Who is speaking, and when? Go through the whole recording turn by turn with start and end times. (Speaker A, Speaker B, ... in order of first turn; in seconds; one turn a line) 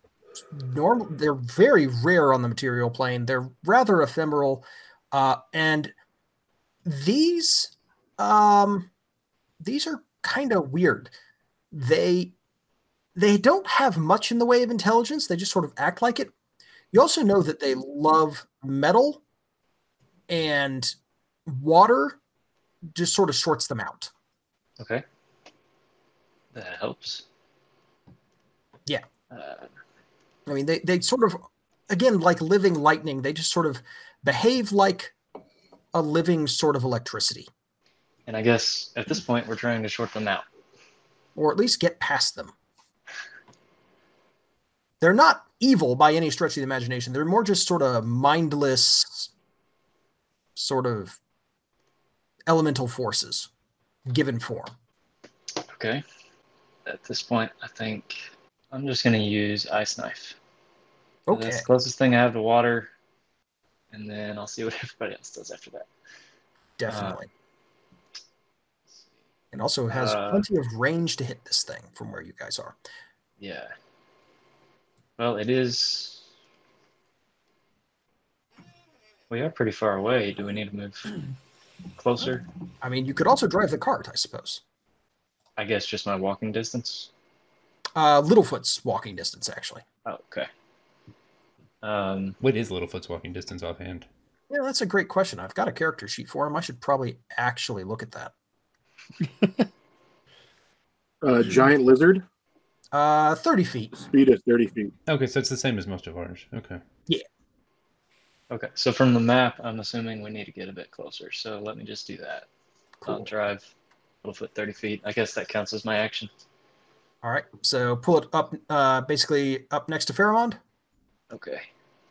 Speaker A: 0.5-5.9
Speaker A: 6.8-8.9
Speaker A: 9.6-11.1
Speaker A: 11.7-12.3
Speaker A: 13.2-16.3
Speaker A: 16.9-19.2
Speaker A: 20.3-20.9
Speaker A: 21.5-22.2
Speaker A: 22.9-24.1
Speaker B: 24.8-25.0
Speaker B: 26.5-27.2
Speaker B: 29.3-29.7
Speaker A: 30.5-35.1
Speaker A: 35.9-37.5
Speaker B: 38.3-40.5
Speaker A: 41.4-42.5
Speaker A: 45.0-49.3
Speaker A: 50.5-51.2
Speaker A: 52.5-53.5
Speaker A: 54.1-54.7
Speaker B: 55.7-56.0
Speaker B: 56.9-58.2
Speaker B: 58.7-60.4
Speaker A: 61.3-61.7
Speaker B: 61.3-62.9
Speaker B: 63.9-65.9
Speaker A: 66.8-67.3
Speaker B: 66.8-67.2
Speaker A: 69.5-72.8
Speaker B: 69.9-70.5
Speaker B: 73.4-73.7
Speaker B: 75.2-76.2
Speaker B: 79.3-81.1
Speaker B: 81.9-82.5
Speaker A: 82.8-84.6
Speaker B: 85.6-87.1
Speaker A: 88.0-89.8
Speaker B: 90.0-90.5
Speaker B: 91.8-92.4
Speaker C: 92.4-94.1
Speaker A: 94.5-98.3
Speaker D: 101.2-102.2
Speaker A: 102.9-104.0
Speaker D: 104.0-104.9
Speaker C: 105.1-106.8
Speaker B: 108.5-112.5
Speaker B: 113.0-113.7
Speaker B: 114.2-116.3
Speaker A: 117.2-120.6
Speaker B: 121.3-121.7